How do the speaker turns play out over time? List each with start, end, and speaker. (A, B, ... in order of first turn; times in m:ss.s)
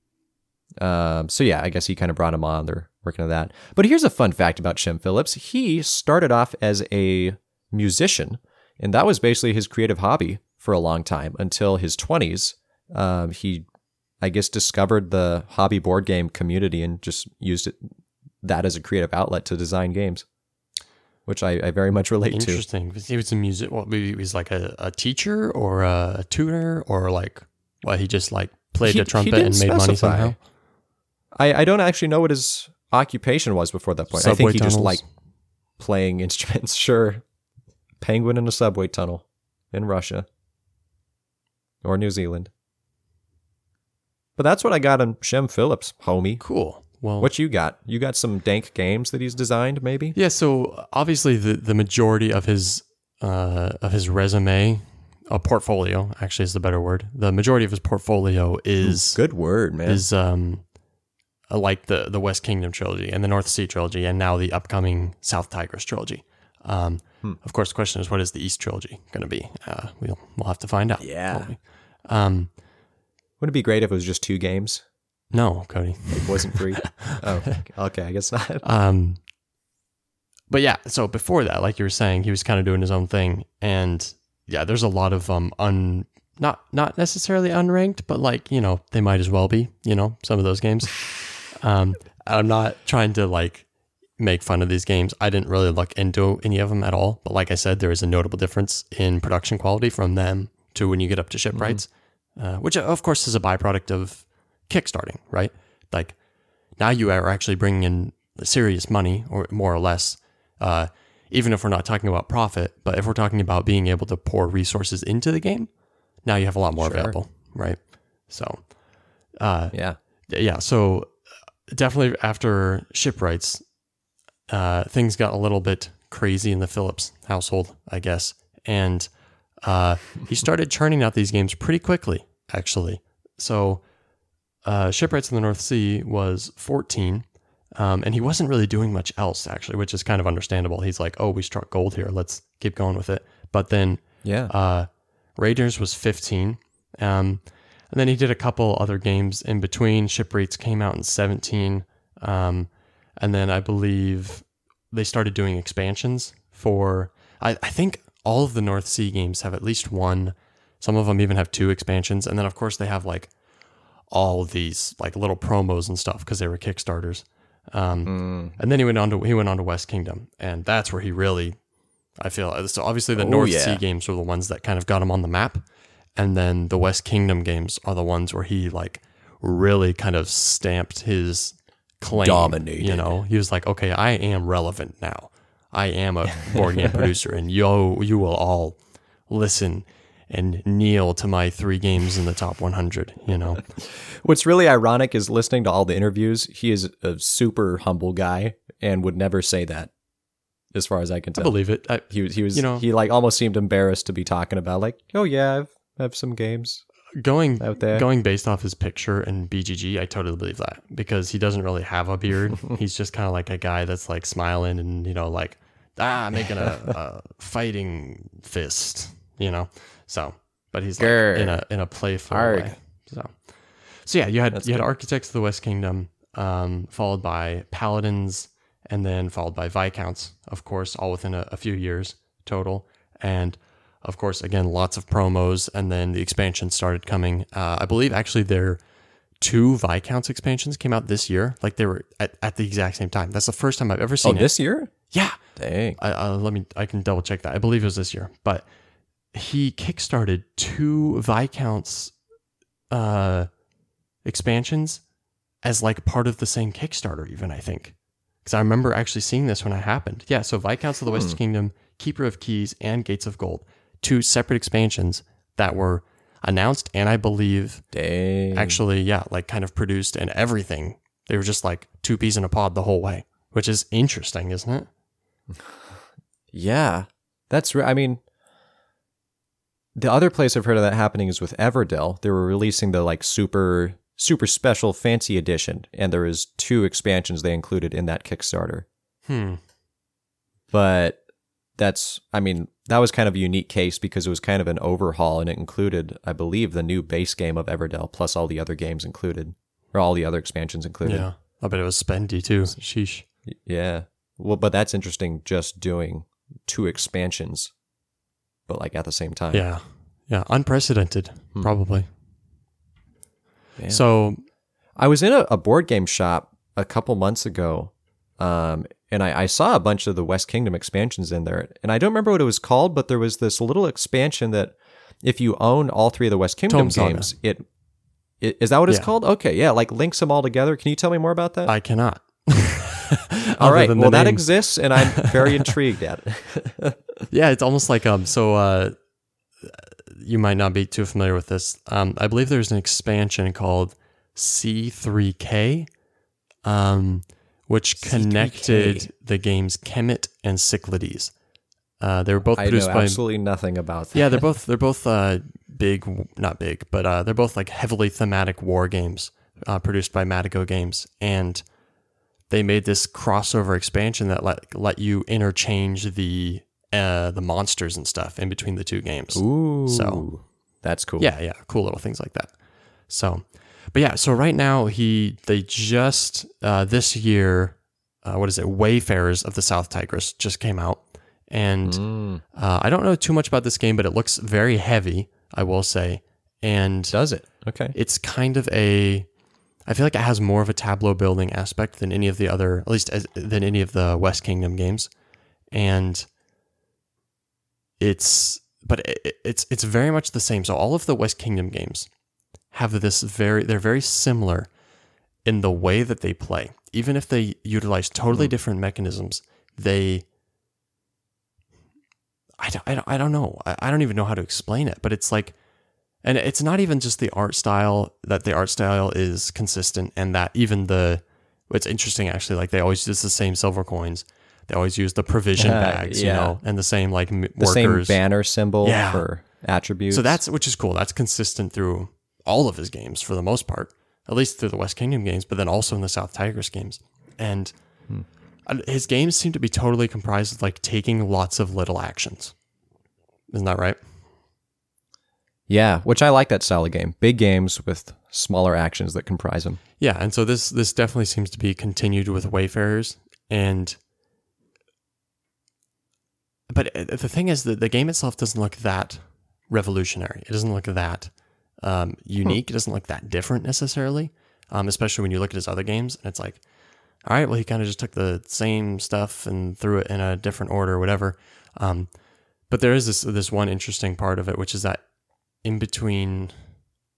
0:00.8-0:13.6 A
0:14.2-0:17.8 A
0:18.4-0:20.2 A
0:21.3-0:22.6 A
0:22.3-0:30.4 B
0:28.8-0:30.4 A
0:31.4-0:35.0 A
0:34.1-0:35.0 B
0:35.8-0:37.2 A
0:38.0-0:40.3 A
0:41.8-0:42.5 A
0:44.4-0:46.4 A
0:46.4-0:47.3 B
0:47.2-0:50.2 A
0:50.2-0:59.2 B
0:58.8-1:00.0 A
0:59.8-1:00.6 B
1:01.5-1:12.5 B
1:11.0-1:11.5 A
1:13.4-1:14.8 A
1:15.3-1:17.3 B
1:16.1-1:18.6 A
1:18.6-1:19.2 B
1:20.5-1:46.2 B
1:41.5-1:41.8 A
1:46.8-1:55.7 B
1:56.2-1:58.8 B
1:56.8-1:57.2 A
1:59.3-1:59.8 B
1:59.7-2:00.0 A
2:00.3-2:01.1 B
2:01.7-2:03.6 B
2:04.5-2:09.1 B
2:09.6-2:13.8 B
2:14.6-2:43.3 B
2:24.2-2:24.5 A
2:44.1-2:51.6 B
2:48.0-2:48.6 A
2:52.2-3:13.6 B
2:53.2-2:53.8 A
3:02.1-3:03.2 A
3:06.4-3:07.0 A
3:13.8-3:19.9 A
3:20.8-3:21.6 A
3:21.4-3:22.8 B
3:22.1-3:26.8 A
3:27.1-3:58.8 B
3:27.6-3:28.1 A
3:41.0-3:41.6 A
3:42.3-3:42.8 A
3:44.5-3:44.9 A
3:59.4-4:04.5 B
4:04.2-4:04.9 A
4:05.1-4:05.4 B
4:05.6-4:06.0 A
4:06.0-4:08.7 B
4:09.3-4:12.2 B
4:12.9-4:13.5 B
4:14.2-4:15.0 B
4:15.6-4:27.8 B
4:27.9-4:28.8 A
4:28.5-4:34.9 B
4:35.5-4:36.0 A
4:36.5-4:38.2 A
4:40.0-4:48.9 A
4:49.3-4:49.6 B
4:50.7-4:51.2 A
4:51.8-5:01.3 A
5:01.0-5:03.2 B
5:03.6-5:07.7 A
5:08.7-5:09.6 A
5:09.5-5:12.1 B
5:13.8-5:14.0 A
5:13.9-5:14.4 B
5:15.0-5:27.7 A
5:26.7-5:27.3 B
5:28.4-5:31.7 A
5:31.7-5:35.7 B
5:33.6-5:37.0 A
5:37.3-5:39.0 B
5:39.6-5:45.9 B
5:46.6-5:51.3 B
5:48.0-5:49.1 A
5:52.0-5:53.2 B
5:52.6-5:54.4 A
5:54.1-6:01.7 B
6:02.5-6:10.3 B
6:09.3-6:11.3 A
6:11.2-6:12.6 B
6:13.1-6:27.2 B
6:21.8-6:22.4 A
6:27.1-6:28.0 A
6:27.9-6:29.3 B
6:29.9-6:35.1 B
6:35.7-6:36.3 B
6:38.0-6:42.1 B
6:42.7-6:44.7 B
6:45.4-6:50.2 B
6:52.6-6:55.6 B
6:56.2-7:08.2 B
7:05.6-7:06.6 A
7:07.6-7:10.4 A
7:08.8-7:09.3 B
7:10.1-7:17.8 B
7:18.7-7:22.5 B
7:23.5-7:24.0 B
7:25.7-7:29.8 A
7:30.0-7:34.0 B
7:36.7-7:46.6 B
7:47.2-7:52.1 B
7:52.7-7:55.0 B
7:55.6-7:56.6 B